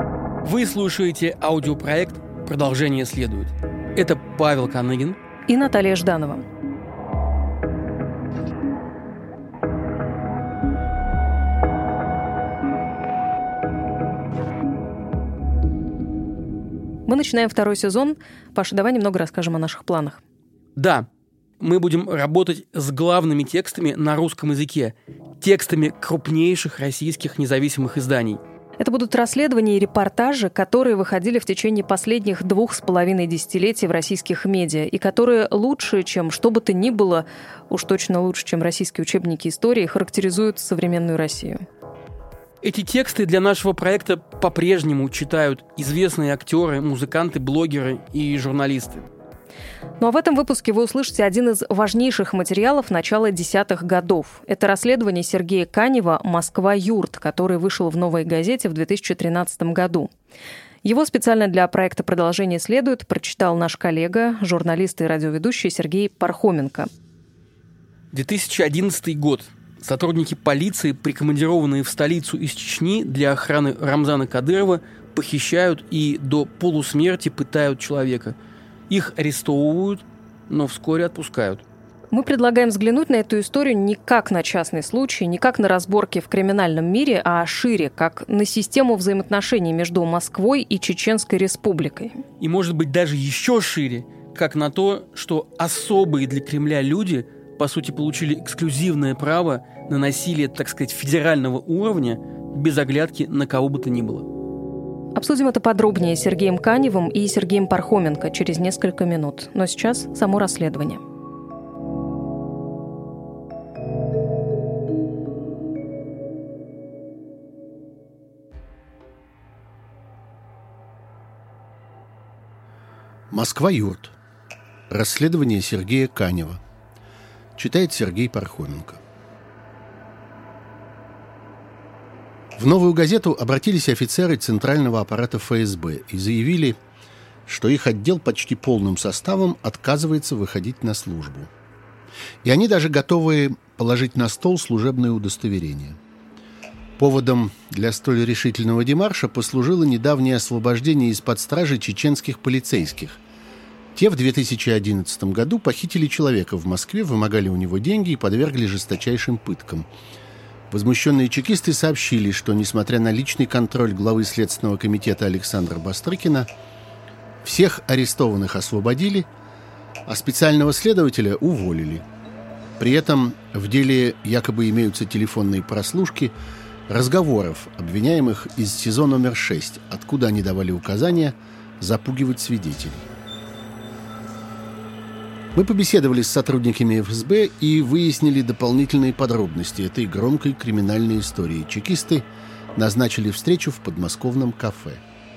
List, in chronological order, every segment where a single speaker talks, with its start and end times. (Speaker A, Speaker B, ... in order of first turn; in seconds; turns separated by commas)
Speaker A: 0.4-5.2, Speaker B: 5.5-6.5, Speaker B: 17.1-20.2, Speaker A: 20.8-21.1, Speaker A: 21.6-28.4, Speaker B: 28.8-41.6, Speaker A: 42.6-49.0, Speaker B: 50.0-60.1, Speaker B: 60.8-66.9, Speaker A: 68.1-78.4, Speaker A: 78.9-81.6, Speaker B: 82.1-92.2, Speaker A: 92.4-104.3, Speaker B: 105.2-111.0, Speaker C: 123.3-124.1, Speaker C: 124.9-126.6, Speaker C: 127.6-129.0, Speaker C: 132.6-136.8, Speaker C: 137.4-141.5, Speaker C: 142.4-146.0, Speaker C: 147.0-153.2, Speaker C: 153.9-159.9, Speaker C: 160.7-166.5, Speaker C: 167.4-169.3, Speaker C: 170.1-172.1, Speaker C: 172.8-176.3, Speaker C: 176.9-183.1, Speaker C: 185.5-195.0